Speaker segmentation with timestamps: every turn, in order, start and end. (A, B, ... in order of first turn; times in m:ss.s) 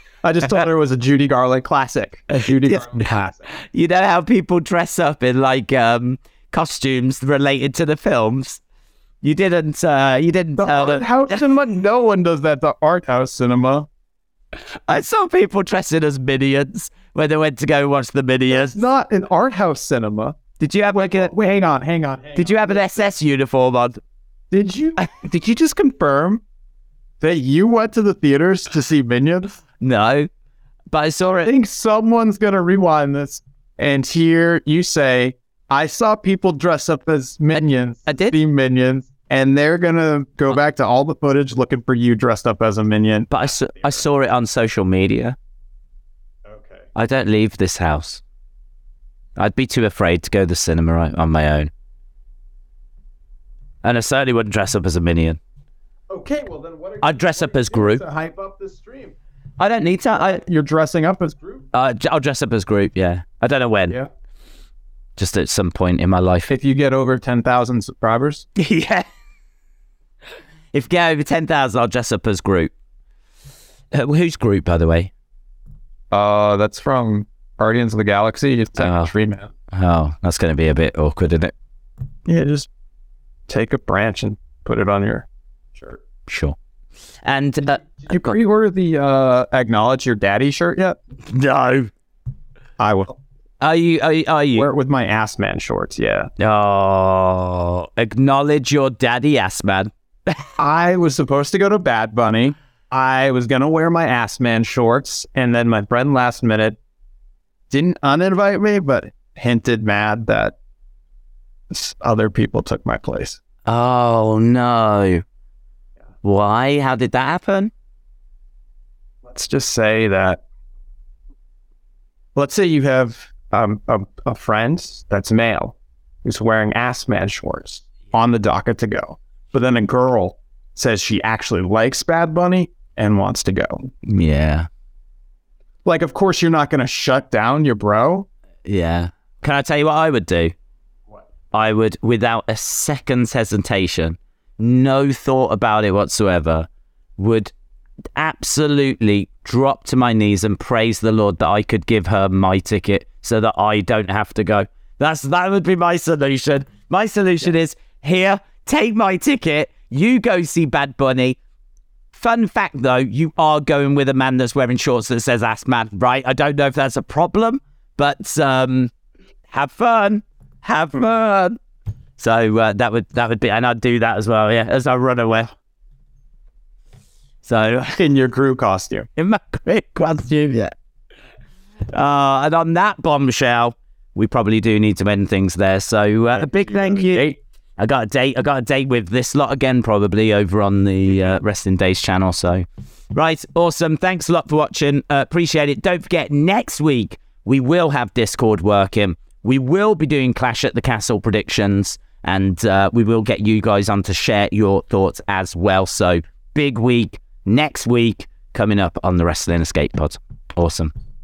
0:00.2-0:03.5 A
0:02.3-0:08.6 B
0:09.2-0:11.4 B
0:10.6-0:13.9 A
0:14.9-0:18.8 B
0:18.5-0:20.4 A
0:20.6-0:21.3 B
0:20.9-0:23.1 A
0:22.4-0:24.0 B
0:24.5-0:26.4 A
0:27.2-0:29.6 A
0:29.8-0:30.3 B
0:30.9-0:31.5 B
0:31.3-0:44.0 A
0:37.5-0:38.4 B
0:43.3-0:45.4 B
0:46.4-0:46.9 A
0:46.9-0:48.2 B
0:49.4-0:51.7 B
0:53.8-0:55.4 B
0:56.1-0:59.2 A
0:57.0-0:58.0 B
0:59.6-1:00.4 B
1:00.1-1:01.6 A
1:01.7-1:04.0 B
1:05.2-1:06.5 B
1:06.5-1:08.4 A
1:08.6-1:09.0 B
1:10.7-1:12.7 B
1:13.9-1:15.1 B
1:16.1-1:19.5 A
1:18.8-1:19.1 B
1:19.7-1:21.5 B
1:22.3-1:22.7 A
1:23.5-1:26.0 A
1:26.3-1:26.6 B
1:27.2-1:28.2 B
1:27.8-1:31.0 A
1:31.2-1:31.9 B
1:32.8-1:33.2 A
1:33.6-1:34.7 B
1:34.5-1:36.3 A
1:36.4-1:40.5 B
1:40.6-1:46.8 A
1:47.7-1:50.6 A
1:51.7-1:53.4 A
1:53.6-1:55.2 B
1:56.2-1:57.7 B
1:59.2-2:00.4 A
2:02.3-2:13.8 A
2:14.0-2:14.7 B
2:15.8-2:18.3 A
2:18.6-2:20.5 B
2:21.5-2:27.5 B
2:28.2-2:41.4 B
2:42.1-2:48.9 B
2:49.5-2:51.6 B
2:52.2-2:55.5 B
2:57.4-2:58.0 B
2:58.0-2:59.1 A
2:59.2-3:00.7 B
3:01.9-3:30.9 B
3:06.4-3:07.4 A